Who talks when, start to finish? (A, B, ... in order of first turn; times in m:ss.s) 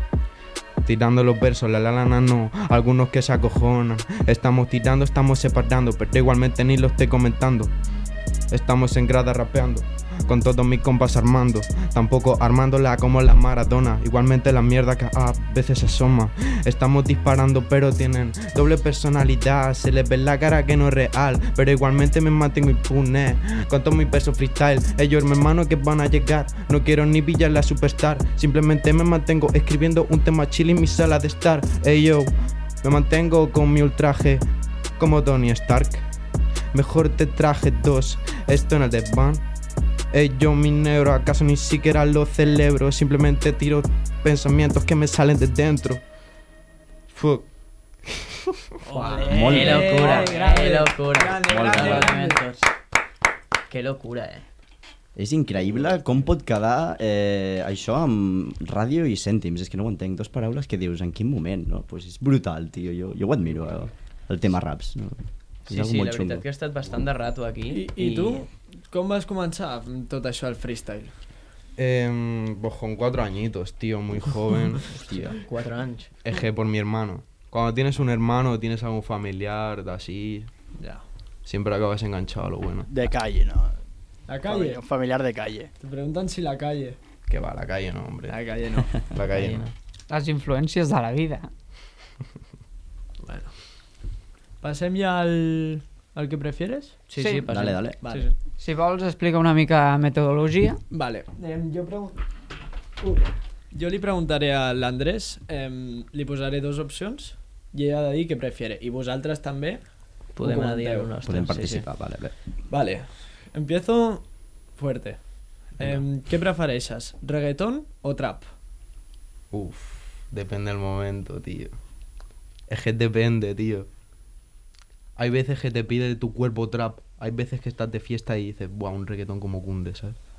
0:00.8-0:07.7 A
0:08.5-0:34.4 A
0:35.0-0:36.0 A
0:36.7-0:39.4 A
0:40.1-0:46.0 A
0:47.1-0:47.5 A
0:48.8-0:52.4 B
0:48.9-0:52.7 C
0:49.3-0:50.1 D
0:51.5-0:52.1 D
0:53.7-0:54.4 C
0:55.1-1:06.4 D
1:05.7-1:08.5 C
1:07.7-1:11.1 B
1:11.8-1:14.8 A
1:14.9-1:16.1 C
1:15.1-1:15.4 D
1:16.2-1:20.5 A
1:20.8-1:21.0 B
1:21.4-1:22.9 A
1:22.9-1:23.7 E
1:24.3-1:24.8 B
1:24.4-1:25.7 E
1:25.8-1:27.0 B
1:27.3-1:28.4 A
1:28.3-1:29.1 B
1:29.0-1:29.7 A
1:29.3-1:29.7 C
1:30.1-1:31.5 F
1:33.2-1:33.6 B
1:34.6-1:37.0 B
1:37.1-1:38.3 C
1:37.2-1:37.4 F
1:37.5-1:38.0 D
1:38.0-1:38.3 B
1:38.6-1:40.8 F
1:40.9-1:42.2 B
1:43.0-1:49.8 B
1:50.3-1:51.9 C
1:50.4-1:51.1 B
1:51.2-1:52.3 D
1:52.7-1:58.5 B
1:59.5-2:01.8 A
2:02.7-2:03.9 A
2:05.2-2:10.2 A